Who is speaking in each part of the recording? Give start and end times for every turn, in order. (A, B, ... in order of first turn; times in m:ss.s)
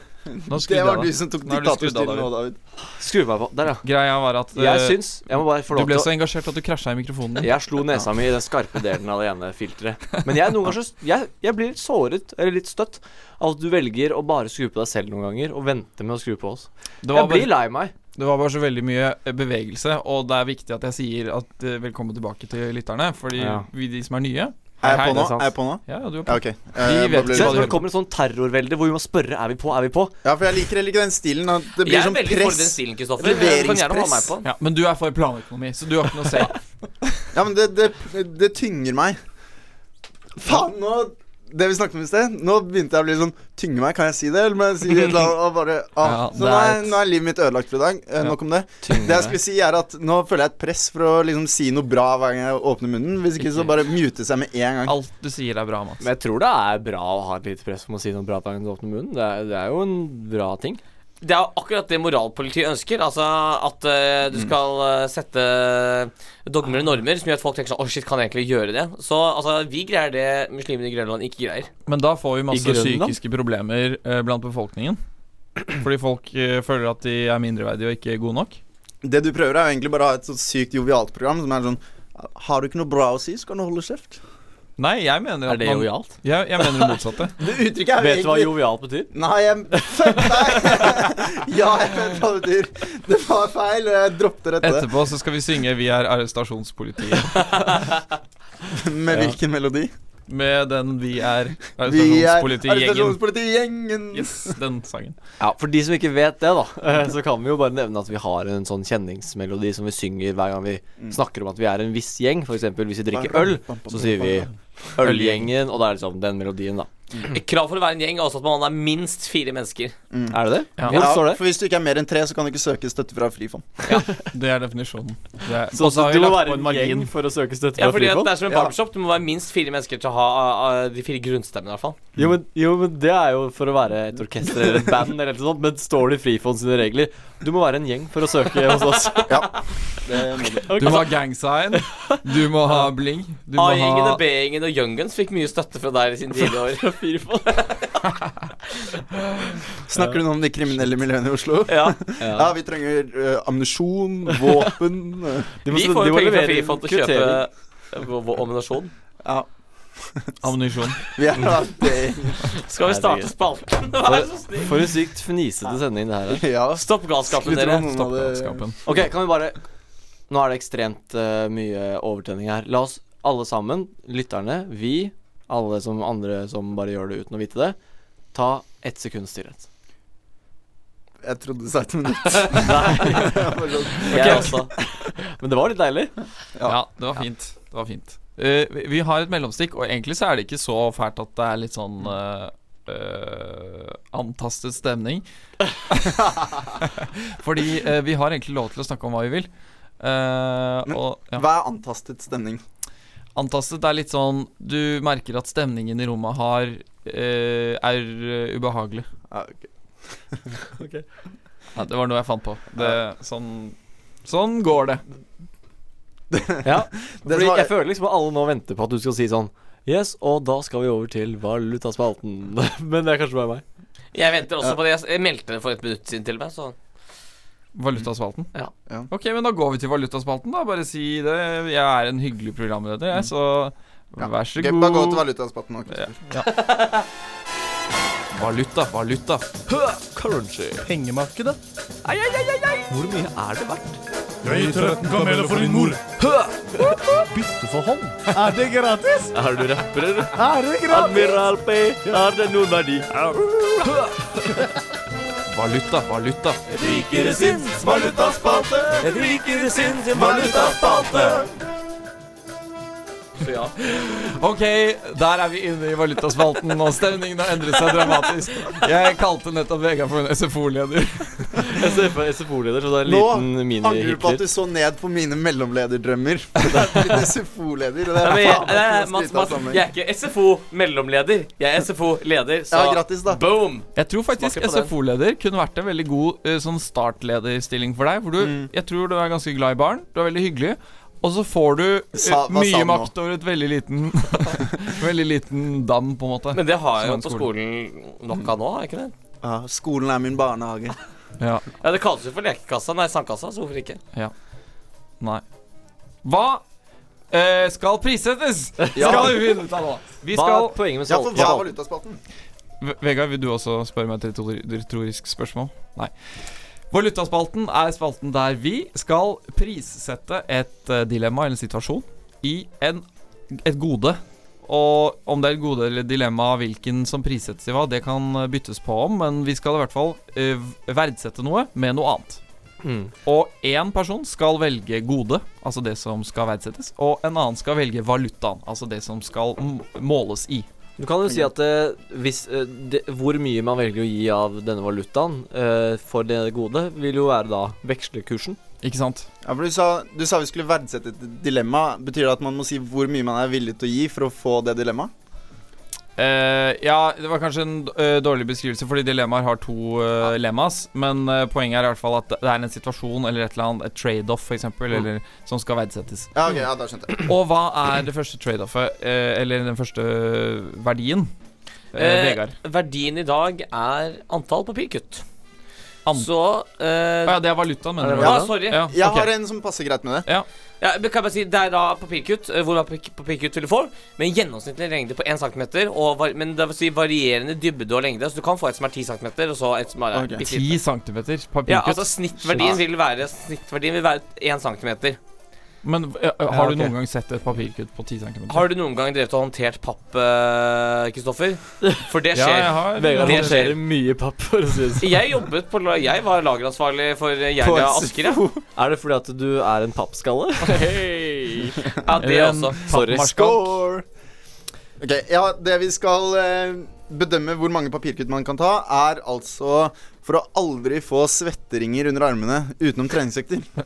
0:00.3-0:02.6 A
0:00.5-0:02.3 B
0:02.8-0:03.8 C
0:03.8-0:07.5 B
0:04.5-0:06.1 C
0:07.4-0:17.9 C
0:17.0-0:27.8 B
0:23.4-0:23.7 C
0:24.8-0:27.7 A
0:26.8-0:30.1 C
0:30.2-0:34.3 A
0:31.8-0:34.5 D
0:34.4-0:37.2 B
0:37.3-0:39.2 A
0:40.4-0:55.0 A
0:46.0-0:47.0 B
0:48.2-0:49.4 B
0:48.8-0:49.2 C
0:53.4-0:53.7 B
0:54.8-0:56.0 B
0:56.0-1:00.8 C
1:01.2-1:11.7 D
1:11.8-1:15.0 B
1:12.5-1:13.2 C
1:15.7-1:18.6 B
1:19.0-1:24.2 A
1:24.8-1:27.4 B
1:25.5-1:26.9 C
1:27.4-1:28.5 A
1:28.0-1:29.1 C
1:29.1-1:34.9 A
1:29.8-1:30.6 C
1:34.6-1:37.9 B
1:38.7-1:39.9 A
1:40.3-1:43.2 B
1:41.8-1:44.6 A
1:44.1-1:45.2 B
1:45.4-1:56.9 C
1:53.1-1:54.5 A
1:55.0-1:55.5 B
1:57.3-1:59.9 D
2:00.1-2:03.8 A
2:00.3-2:01.4 C
2:00.8-2:01.1 B
2:04.2-2:07.1 B
2:05.7-2:08.3 C
2:07.8-2:12.0 D
2:08.5-2:08.7 A
2:12.2-2:19.9 C
2:19.3-2:21.0 A
2:20.5-2:21.1 C
2:20.8-2:24.2 B
2:23.5-2:26.8 D
2:26.4-2:27.6 C
2:27.5-2:28.0 D
2:29.9-2:35.5 A
2:31.7-2:32.0 D
2:32.2-2:32.5 C
2:35.6-2:37.4 C
2:35.7-2:38.9 D
2:39.2-2:40.4 A
2:40.4-2:41.1 B
2:41.0-2:42.5 A
2:42.7-2:44.9 D
2:42.8-2:43.3 C
2:44.0-2:46.4 C
2:46.3-2:48.7 A
2:46.7-2:47.9 D
2:47.8-2:48.8 B
2:48.8-2:49.6 C
2:50.3-2:57.8 C
2:58.3-2:59.6 C
3:01.2-3:04.6 A
3:02.6-3:03.0 D
3:04.1-3:04.7 D
3:04.1-3:04.5 B
3:04.2-3:04.5 C
3:05.1-3:06.2 C
3:06.6-3:15.2 B
3:15.9-3:16.2 B
3:16.2-3:16.7 A
3:16.8-3:19.5 B
3:20.0-3:21.4 B
3:20.8-3:22.6 A
3:23.3-3:29.1 B
3:29.3-3:30.4 A
3:30.8-3:31.0 C
3:31.7-3:35.0 B
3:36.3-3:37.7 A
3:36.6-3:43.6 C
3:44.1-3:46.8 D
3:47.7-3:48.5 B
3:49.1-3:55.2 B
3:54.2-3:56.2 A
3:55.9-3:56.5 B
3:58.3-3:59.5 B
3:59.7-4:00.9 C
4:00.8-4:01.6 E
4:02.0-4:04.0 C
4:04.4-4:09.4 E
4:04.5-4:07.1 C
4:09.3-4:13.1 C
4:10.3-4:11.5 E
4:13.1-4:14.0 E
4:13.8-4:14.1 C
4:15.5-4:16.6 B
4:16.7-4:21.4 C
4:16.8-4:21.4 E
4:20.1-4:20.8 A
4:23.4-4:23.7 D
4:23.8-4:31.8 B
4:31.7-4:34.4 C
4:33.0-4:39.8 A
4:38.2-4:44.9 D
4:42.7-4:43.4 A
4:44.0-4:57.5 B
4:48.4-4:48.7 A
4:52.1-4:53.1 A
4:56.5-4:59.1 D
4:59.4-5:01.0 A
5:01.4-5:01.7 B
5:01.8-5:04.0 D
5:06.2-5:06.6 B
5:07.3-5:10.7 B
5:08.8-5:09.2 C
5:08.9-5:09.5 A
5:10.3-5:11.7 C
5:11.1-5:12.2 A
5:12.8-5:16.3 B
5:16.9-5:32.4 B
5:32.8-5:33.1 C
5:33.2-5:40.7 B
5:41.0-5:48.6 C
5:48.8-5:49.3 B
5:49.4-5:55.1 A
5:56.2-6:06.3 B
6:06.3-6:07.3 A
6:07.2-6:11.3 B
6:11.9-6:12.5 B
6:12.0-6:15.2 D
6:16.1-6:17.4 D
6:17.2-6:19.3 B
6:18.0-6:18.5 C
6:18.2-6:18.8 D
6:18.6-6:20.3 A
6:20.8-6:30.8 D
6:30.1-6:30.4 A
6:30.4-6:32.8 B
6:31.7-6:35.2 D
6:35.8-6:38.7 B
6:36.5-6:36.9 C
6:38.5-6:43.7 D
6:42.3-6:43.7 B
6:42.9-6:45.1 C
6:45.0-6:48.4 D
6:47.6-6:48.6 A
6:48.8-6:51.8 C
6:52.0-6:52.8 D
6:52.2-6:53.8 B
6:52.9-6:53.5 C
6:53.1-6:54.0 A
6:55.0-7:03.7 A